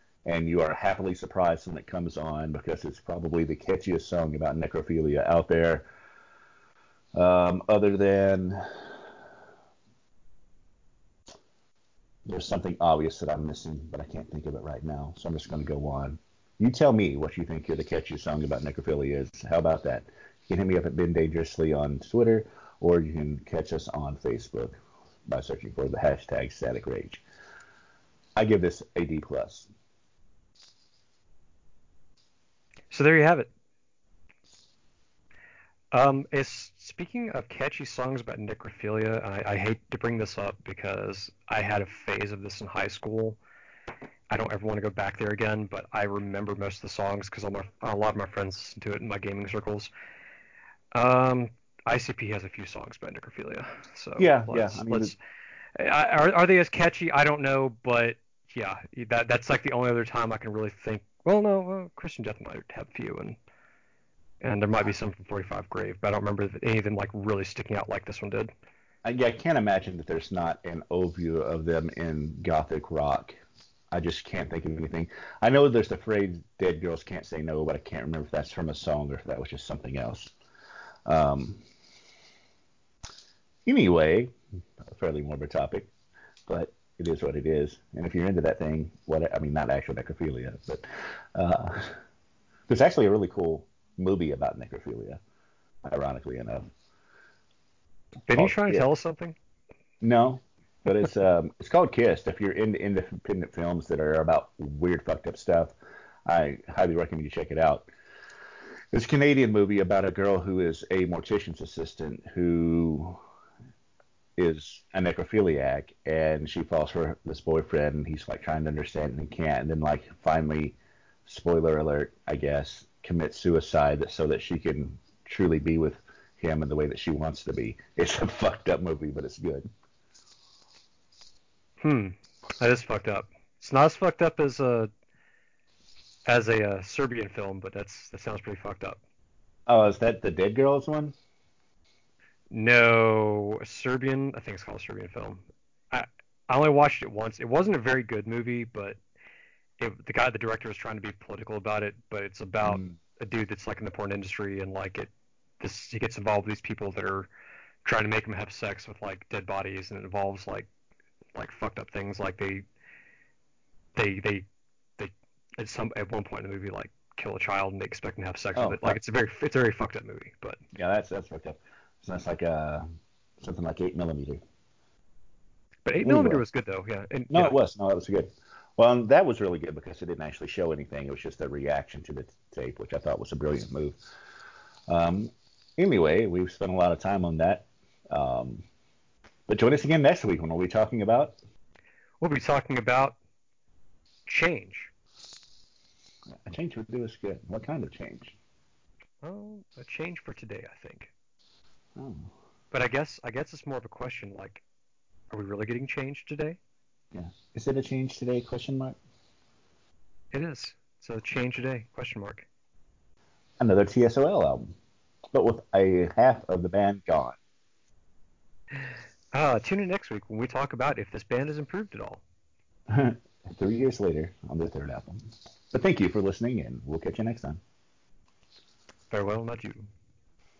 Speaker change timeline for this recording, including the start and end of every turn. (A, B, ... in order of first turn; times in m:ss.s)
0:00.3-0:05.9 A
0:07.2-0:08.9 A
0:12.3-0:27.2 A
0:28.4-0:29.7 A
0:32.9-0:33.5 B
0:35.9-0:43.4 B
0:44.3-0:49.9 B
0:50.9-0:55.2 B
0:54.2-0:55.1 A
0:55.8-1:03.4 B
1:04.4-1:08.5 B
1:09.0-1:13.4 A
1:13.9-1:20.3 A
1:21.1-1:21.6 A
1:23.7-1:25.9 A
1:26.5-1:32.0 A
1:32.7-1:35.2 A
1:35.9-1:36.7 A
1:38.3-1:39.4 B
1:38.4-1:38.8 A
1:40.0-1:45.7 A
1:46.3-1:47.9 A
1:48.9-1:53.2 A
1:54.4-2:09.7 A
2:11.8-2:14.9 B
2:16.3-2:19.0 B
2:19.7-2:21.2 A
2:22.5-2:29.0 B
2:29.8-2:37.3 B
2:32.6-2:33.0 A
2:37.8-2:40.7 B
2:41.4-2:42.6 B
2:44.0-2:44.5 B
2:45.0-2:50.6 B
2:48.6-2:49.0 A
2:50.8-2:52.8 A
2:53.4-2:54.4 A
2:55.8-2:57.5 B
2:56.0-2:56.4 A
2:57.3-3:04.0 A
3:04.9-3:08.6 A
3:09.5-3:11.4 A
3:12.2-3:13.2 B
3:14.3-3:14.9 B
3:16.3-3:18.4 A
3:19.2-3:21.1 B
3:22.0-3:22.3 A
3:22.7-3:24.6 B
3:25.3-3:26.6 B
3:27.1-3:29.0 A
3:30.3-3:32.5 B
3:33.6-3:34.8 A
3:35.3-3:37.4 A
3:39.3-3:42.2 B
3:42.9-3:47.6 A
3:49.1-3:49.9 B